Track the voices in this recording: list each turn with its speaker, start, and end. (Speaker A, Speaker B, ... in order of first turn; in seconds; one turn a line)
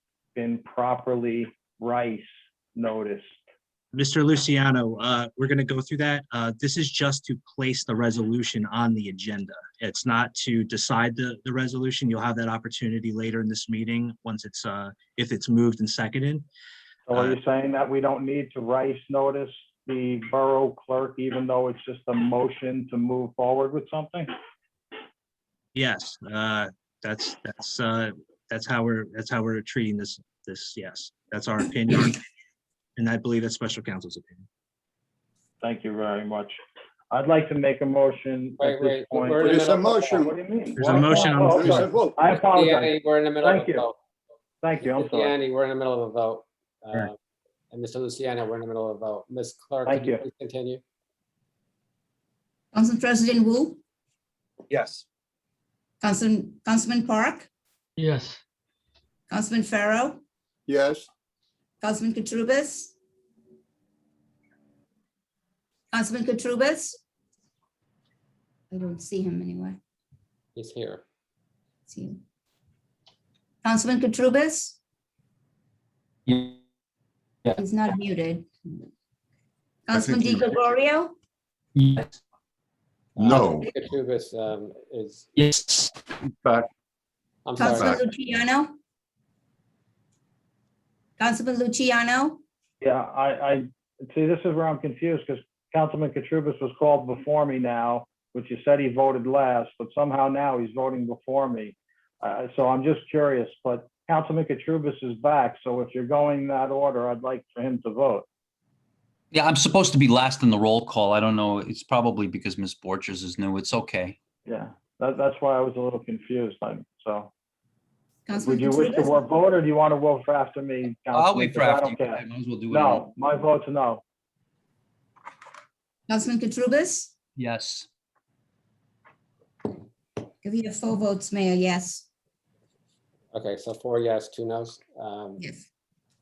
Speaker A: 0.3-3.4
Speaker B: 3.9-16.4
Speaker A: 17.1-24.3
Speaker B: 17.1-17.4
Speaker B: 25.8-32.2
Speaker B: 33.0-34.5
Speaker A: 35.6-36.6
Speaker A: 37.1-43.9
Speaker C: 38.6-40.3
Speaker D: 39.4-42.2
Speaker B: 40.8-41.7
Speaker C: 41.7-44.0
Speaker A: 44.6-45.4
Speaker C: 44.8-47.1
Speaker C: 47.7-50.8
Speaker A: 49.9-50.2
Speaker E: 52.7-53.8
Speaker E: 56.0-57.5
Speaker E: 59.3-60.2
Speaker D: 60.7-61.1
Speaker E: 61.8-62.9
Speaker E: 65.9-67.0
Speaker E: 68.7-69.8
Speaker C: 70.5-71.0
Speaker E: 71.9-72.2
Speaker E: 73.6-74.8
Speaker F: 76.3-76.5
Speaker E: 77.6-78.9
Speaker E: 79.9-81.1
Speaker G: 79.9-80.6
Speaker F: 81.8-82.1
Speaker C: 83.2-85.3
Speaker G: 83.2-83.7
Speaker G: 86.1-86.7
Speaker C: 87.5-87.9
Speaker E: 87.6-88.8
Speaker G: 87.6-88.1
Speaker E: 91.2-92.4
Speaker A: 92.8-108.3
Speaker F: 109.3-114.2
Speaker A: 114.5-117.3
Speaker E: 118.3-119.2
Speaker A: 118.4-124.0
Speaker F: 121.1-123.1
Speaker E: 126.1-127.1
Speaker F: 127.4-127.9
Speaker E: 130.4-132.1
Speaker C: 133.3-135.4
Speaker E: 135.4-135.7